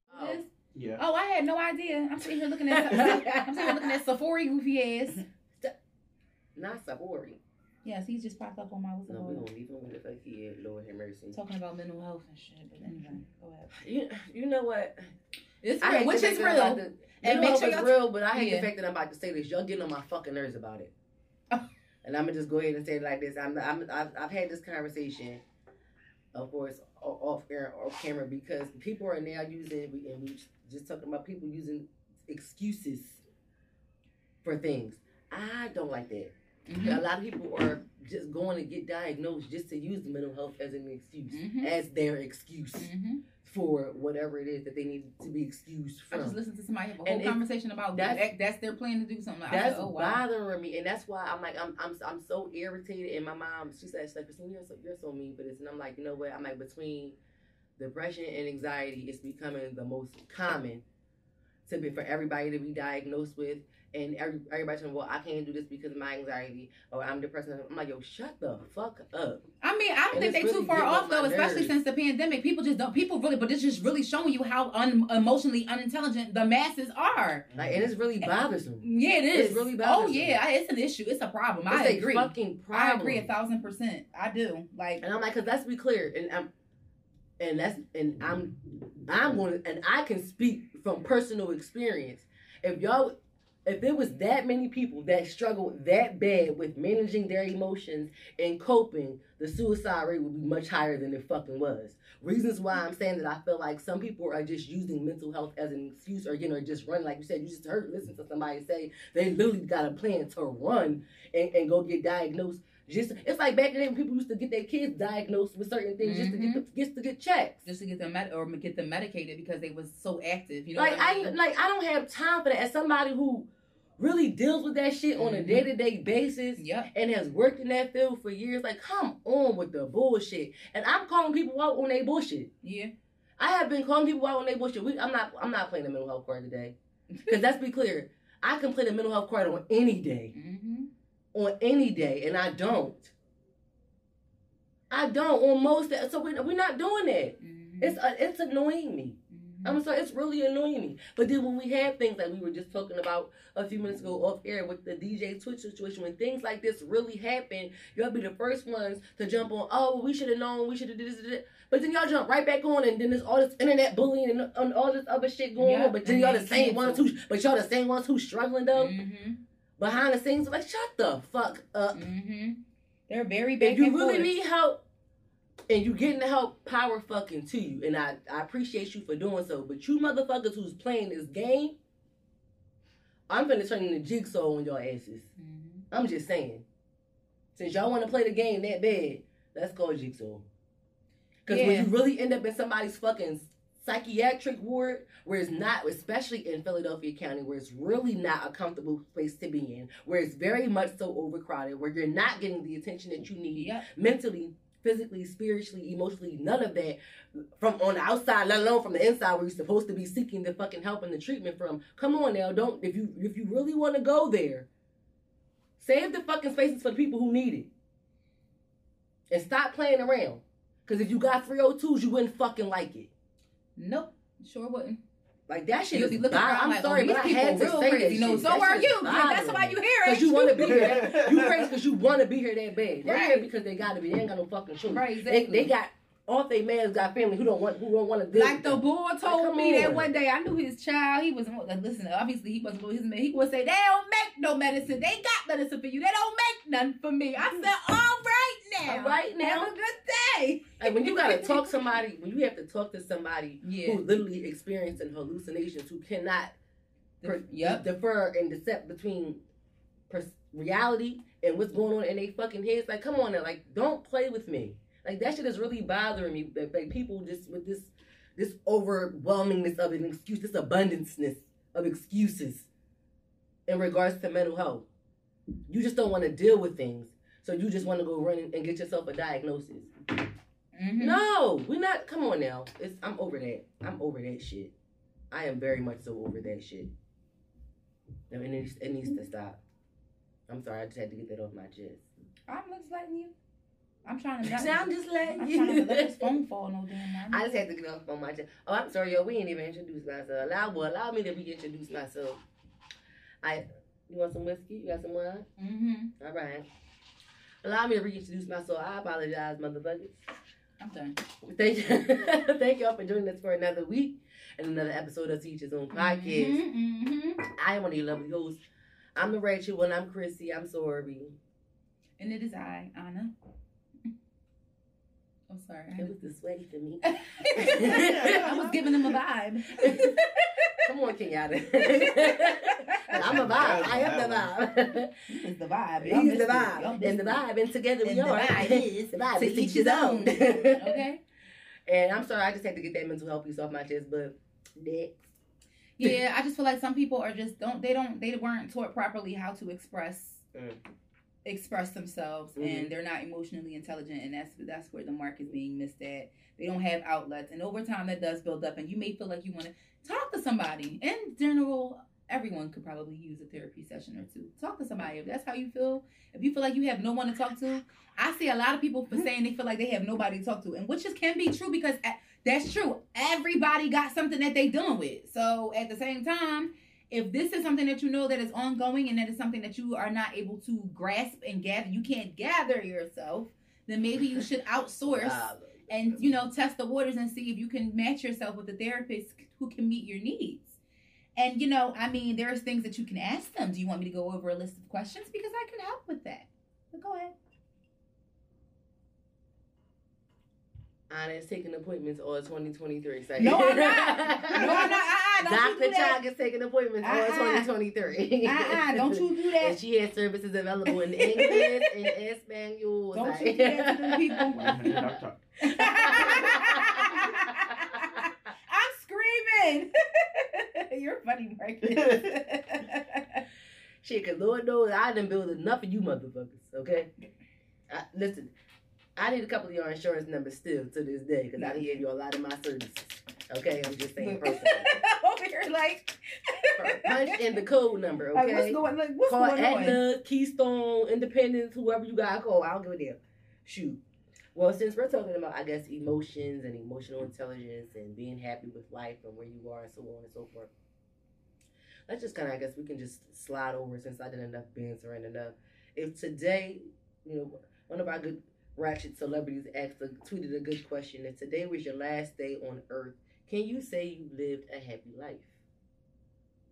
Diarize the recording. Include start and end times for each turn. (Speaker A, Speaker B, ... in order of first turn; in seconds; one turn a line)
Speaker A: 0.1-0.4
Speaker B: 0.1-5.2
Speaker C: 0.7-1.0
Speaker A: 2.7-3.9
Speaker A: 6.5-7.4
Speaker B: 7.8-9.5
Speaker A: 9.1-11.4
Speaker B: 11.3-13.7
Speaker A: 13.8-15.1
Speaker B: 15.6-18.7
Speaker A: 15.8-20.9
Speaker A: 22.0-25.4
Speaker A: 26.3-33.2
Speaker A: 34.4-42.9
Speaker B: 36.7-37.0
Speaker B: 41.3-41.7
Speaker B: 42.8-43.2
Speaker A: 43.4-46.4
Speaker B: 46.1-50.2
Speaker A: 47.0-47.4
Speaker A: 47.9-48.2
Speaker A: 49.5-57.1
Speaker A: 57.8-60.8
Speaker A: 61.6-69.4
Speaker B: 69.6-77.5
Speaker A: 70.1-71.7
Speaker C: 77.5-77.9
Speaker A: 77.5-80.3
Speaker B: 78.2-85.0
Speaker A: 81.7-83.3
Speaker A: 85.0-86.5
Speaker A: 87.4-93.1
Speaker A: 93.7-117.6
Speaker B: 116.0-116.6
Speaker B: 117.6-121.3
Speaker A: 120.7-123.5
Speaker A: 124.0-132.5
Speaker B: 125.1-125.7
Speaker B: 126.6-126.9
Speaker B: 132.6-132.9
Speaker A: 133.4-140.3
Speaker B: 140.3-140.9
Speaker A: 141.3-143.1
Speaker A: 144.9-168.9
Speaker B: 147.4-148.0
Speaker B: 149.3-149.8
Speaker B: 165.6-167.0
Speaker B: 168.7-169.4
Speaker A: 169.8-172.1
Speaker B: 171.9-174.3
Speaker A: 173.6-174.8
Speaker A: 175.7-181.8
Speaker A: 183.3-185.3
Speaker B: 185.4-185.8
Speaker A: 185.9-186.6
Speaker A: 187.6-190.4
Speaker A: 191.4-214.7
Speaker B: 191.5-191.9
Speaker B: 203.5-203.8
Speaker A: 215.8-217.7
Speaker A: 219.3-223.1
Speaker B: 223.8-225.0
Speaker A: 225.5-240.1
Speaker B: 225.9-231.1
Speaker C: 230.9-231.7
Speaker B: 233.0-233.4
Speaker B: 234.9-235.7
Speaker B: 238.3-251.8
Speaker A: 248.8-249.7
Speaker A: 250.8-256.5
Speaker B: 253.6-254.0
Speaker B: 257.2-257.9
Speaker A: 257.2-259.4
Speaker A: 260.1-272.7
Speaker A: 273.7-274.9
Speaker A: 275.7-279.9
Speaker B: 280.7-281.2
Speaker A: 281.0-284.7
Speaker A: 285.3-286.9
Speaker A: 288.3-289.6
Speaker A: 290.5-292.1
Speaker B: 292.5-293.3
Speaker B: 294.0-297.6
Speaker A: 294.4-296.3
Speaker A: 297.3-302.4
Speaker A: 303.4-305.5
Speaker B: 305.6-306.1
Speaker A: 306.2-306.6
Speaker A: 307.6-310.2
Speaker B: 310.8-311.2
Speaker A: 311.4-316.6
Speaker B: 315.9-317.4
Speaker A: 317.6-318.6
Speaker A: 319.1-321.4
Speaker B: 322.2-323.3
Speaker B: 325.5-326.1
Speaker A: 326.0-328.5
Speaker B: 327.1-330.8
Speaker C: 327.9-328.8
Speaker A: 329.8-330.1
Speaker A: 330.8-335.1
Speaker B: 331.8-333.5
Speaker C: 333.1-334.5
Speaker B: 335.3-337.4
Speaker A: 336.0-341.0
Speaker B: 338.0-341.2
Speaker A: 341.9-345.3
Speaker B: 346.0-350.4
Speaker A: 350.5-350.8
Speaker B: 351.4-390.8
Speaker A: 352.6-352.9
Speaker A: 385.1-386.2
Speaker B: 391.4-397.3
Speaker A: 401.1-415.1
Speaker B: 403.4-406.2
Speaker B: 407.0-407.7
Speaker B: 408.4-409.8
Speaker B: 410.9-411.9
Speaker B: 413.1-414.9
Speaker C: 414.5-415.4
Speaker B: 415.6-423.4
Speaker A: 415.7-417.3
Speaker C: 421.9-422.3
Speaker A: 424.0-427.1
Speaker A: 427.9-428.5
Speaker A: 429.1-434.9
Speaker B: 431.6-432.0
Speaker B: 434.2-437.6
Speaker A: 436.8-444.0
Speaker B: 438.3-440.0
Speaker A: 444.5-450.7
Speaker A: 452.1-465.5